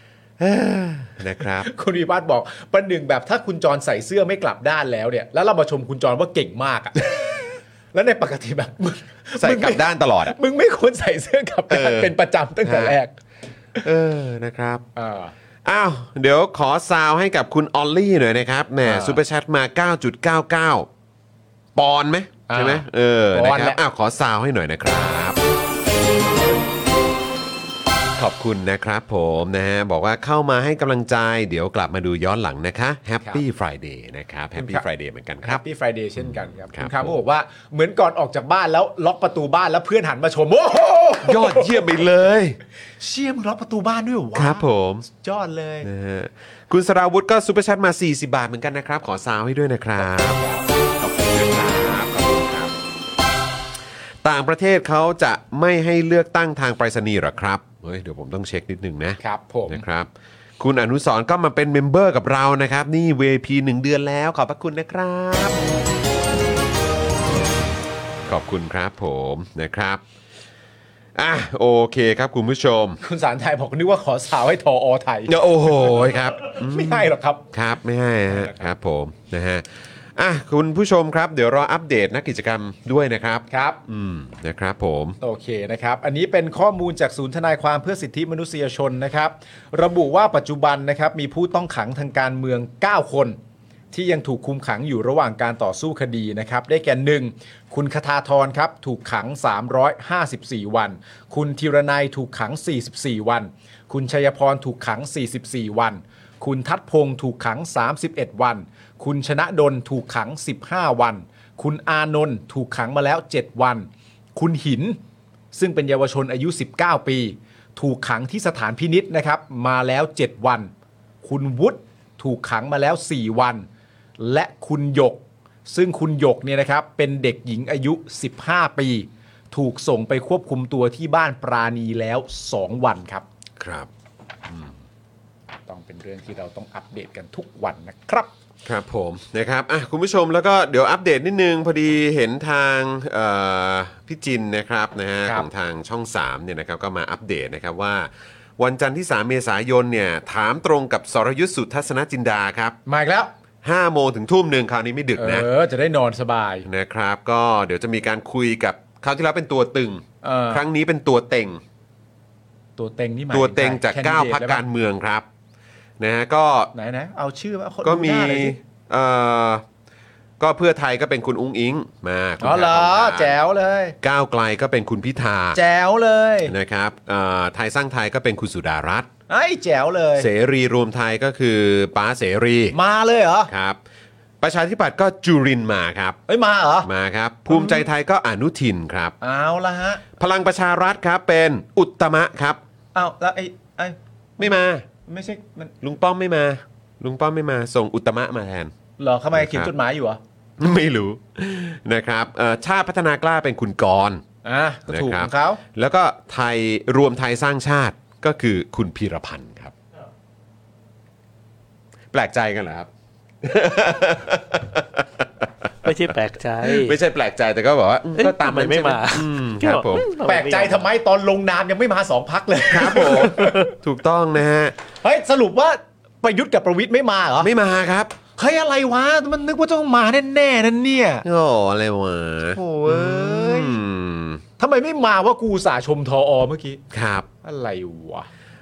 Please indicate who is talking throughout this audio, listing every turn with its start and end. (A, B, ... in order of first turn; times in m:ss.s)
0:00.4-0:01.7 A
0:01.4-0:13.1 B
0:09.4-0:10.4 A
0:11.7-0:13.0 A
0:13.8-0:14.8 A
0:15.0-0:15.3 B
0:15.6-0:20.9 A
0:18.8-0:19.2 B
0:21.7-0:25.4 A
0:22.5-0:23.8 B
0:28.2-0:35.6 A
0:34.6-0:34.8 B
0:35.4-0:41.9 B
0:36.2-0:37.2 A
0:41.2-0:42.6 A
0:43.0-0:45.9 B
0:44.3-0:45.0 A
0:45.8-0:50.5 A
0:50.4-0:50.6 B
0:51.0-0:52.7 A
0:54.2-1:05.6 A
0:59.2-0:59.8 B
1:08.2-1:10.0 A
1:11.1-1:13.0 A
1:13.0-1:17.4 B
1:15.3-1:19.6 A
1:18.3-1:18.7 B
1:20.2-1:25.2 A
1:23.5-1:23.8 B
1:25.2-1:33.4 B
1:33.9-1:55.0 B
1:55.5-2:00.7 B
2:01.2-2:03.7 B
2:04.2-2:13.2 B
2:13.6-2:13.9 A
2:14.5-2:14.7 A
2:15.7-2:18.3 B
2:18.6-2:32.8 A
2:32.8-2:33.3 B
2:33.6-2:35.5 A
2:35.2-2:36.6 B
2:36.6-2:41.6 A
2:40.2-2:40.6 B
2:42.8-2:44.6 B
2:43.3-2:45.2 A
2:46.0-2:46.7 A
2:46.7-2:48.6 B
2:47.8-2:49.6 A
2:50.4-2:53.4 A
2:52.4-2:54.0 B
2:54.0-2:55.6 A
2:55.5-2:56.5 B
2:56.4-2:59.1 A
2:59.3-3:00.3 B
3:00.2-3:02.8 A
3:02.7-3:03.5 B
3:03.5-3:03.8 A
3:04.4-3:06.2 A
3:06.3-3:06.9 B
3:06.8-3:09.2 A
3:07.5-3:07.8 B
3:09.2-3:10.0 B
3:10.2-3:12.6 A
3:12.9-3:14.5 B
3:14.4-3:14.8 A
3:15.0-3:15.7 B
3:15.8-3:18.7 A
3:19.0-3:20.2 B
3:19.3-3:19.7 A
3:20.6-3:24.2 A
3:24.4-3:25.6 B
3:24.9-3:29.7 A
3:32.1-3:32.9 A
3:33.4-3:35.3 A
3:35.8-3:37.0 C
3:36.6-3:40.1 A
3:38.2-3:40.8 C
3:40.2-3:43.7 B
3:42.7-3:44.7 A
3:45.0-3:47.5 B
3:47.4-3:48.2 A
3:48.4-3:51.2 B
3:51.2-3:54.4 A
3:52.5-3:53.8 B
3:54.6-3:56.8 B
3:56.9-3:57.3 A
3:57.4-3:58.3 B